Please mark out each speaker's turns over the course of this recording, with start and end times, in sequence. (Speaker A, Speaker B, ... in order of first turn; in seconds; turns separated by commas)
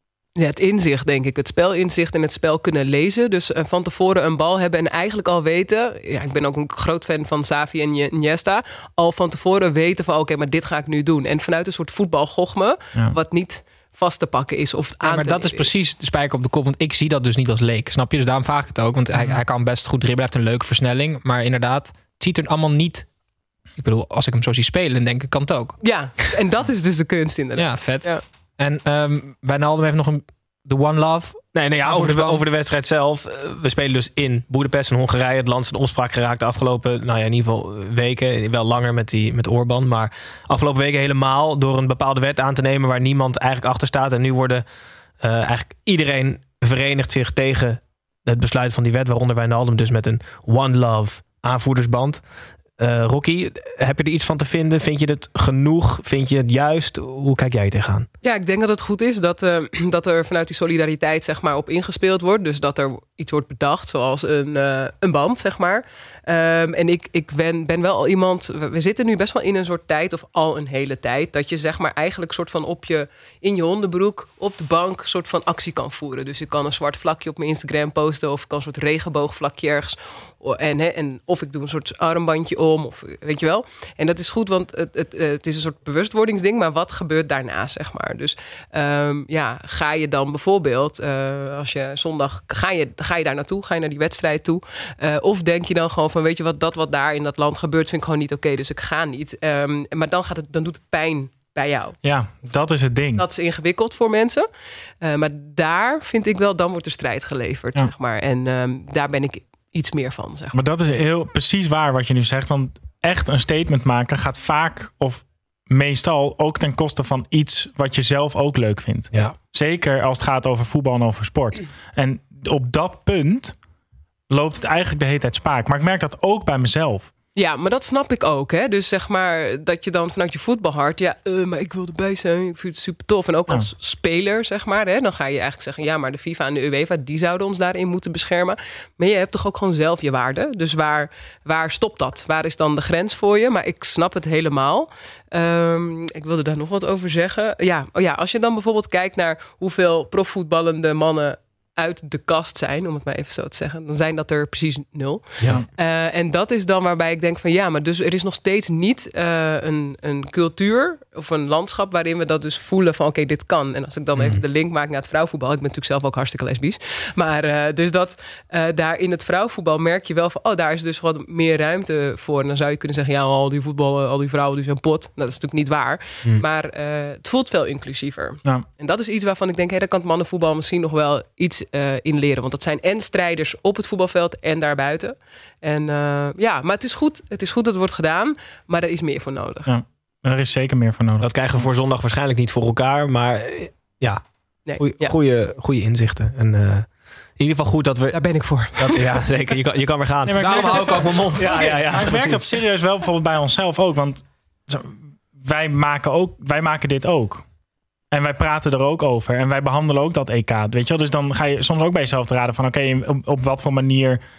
Speaker A: 0.4-15.8, Speaker B: 15.0-23.1, Speaker C: 19.1-19.4, Speaker B: 23.8-25.8, Speaker A: 25.8-28.2, Speaker B: 27.6-32.4, Speaker D: 31.5-44.6, Speaker D: 45.2-52.2, Speaker D: 52.8-58.1, Speaker A: 58.2-102.0, Speaker C: 102.0-103.2, Speaker A: 103.2-104.5, Speaker A: 105.0-110.5, Speaker C: 110.5-123.5, Speaker C: 124.3-127.1, Speaker A: 127.3-189.7, Speaker D: 155.4-155.6, Speaker D: 164.1-164.4, Speaker C: 189.7-191.3, Speaker D: 191.2-194.2, Speaker A: 194.7-195.1, Speaker D: 194.8-198.2, Speaker A: 198.1-199.2, Speaker D: 198.8-202.4, Speaker C: 200.2-207.4, Speaker B: 200.4-201.8, Speaker C: 208.1-214.2